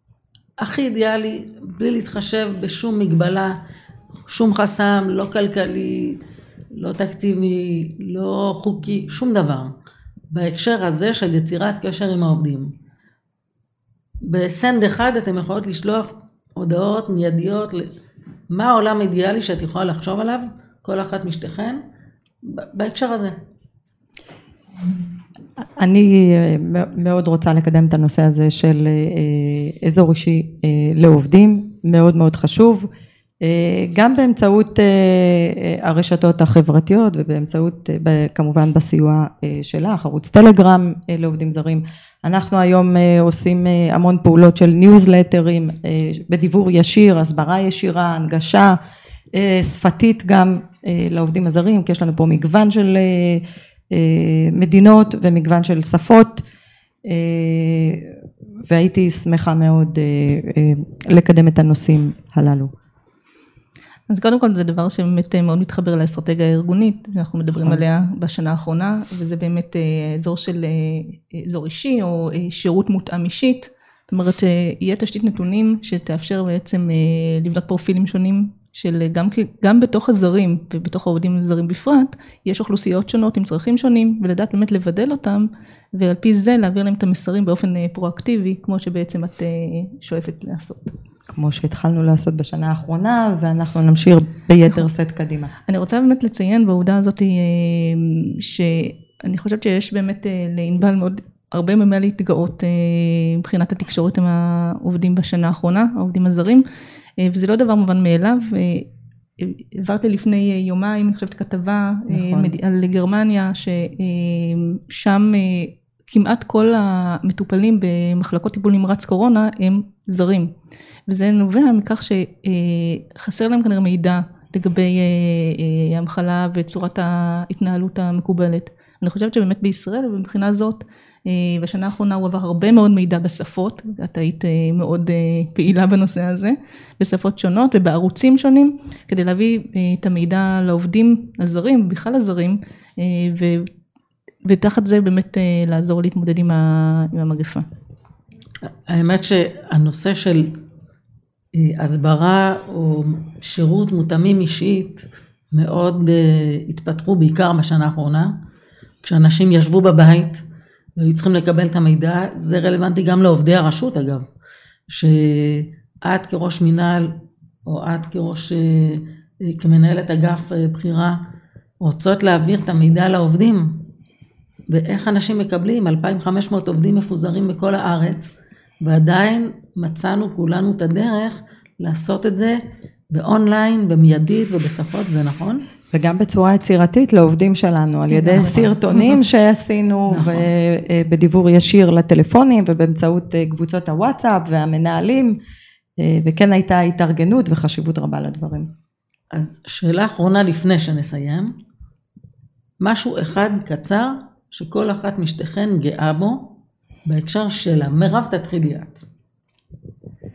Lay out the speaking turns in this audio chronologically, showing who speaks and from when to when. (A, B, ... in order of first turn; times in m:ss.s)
0:00.6-0:03.6 A
0:04.3-0:06.2 A
0:06.7-0:09.7 A
0:10.3-0:12.7 A
0:14.2-0:17.9 A
0:18.5-0:21.8 A
0:22.4-0:23.4 A
0:25.7-0:32.9 B
0:33.4-0:48.8 B
0:49.3-0:56.4 B
0:57.0-1:02.7 B
1:04.1-1:30.9 C
1:31.3-1:35.5 B
1:35.7-1:46.6 C
1:47.2-1:48.9 C
1:49.4-2:00.5 C
1:52.1-1:52.6 B
2:01.1-2:23.7 C
2:24.4-2:27.6 C
2:28.6-2:30.6 A
2:31.5-2:38.4 A
2:39.0-2:40.4 A
2:41.0-2:44.3 A
2:44.9-2:51.2 A
2:51.8-2:53.8 A
2:54.7-3:05.6 A
3:05.9-3:15.4 B
3:08.4-3:08.6 A
3:10.1-3:10.5 A
3:16.0-3:18.7 B
3:19.3-3:21.5 A
3:22.8-3:29.0 A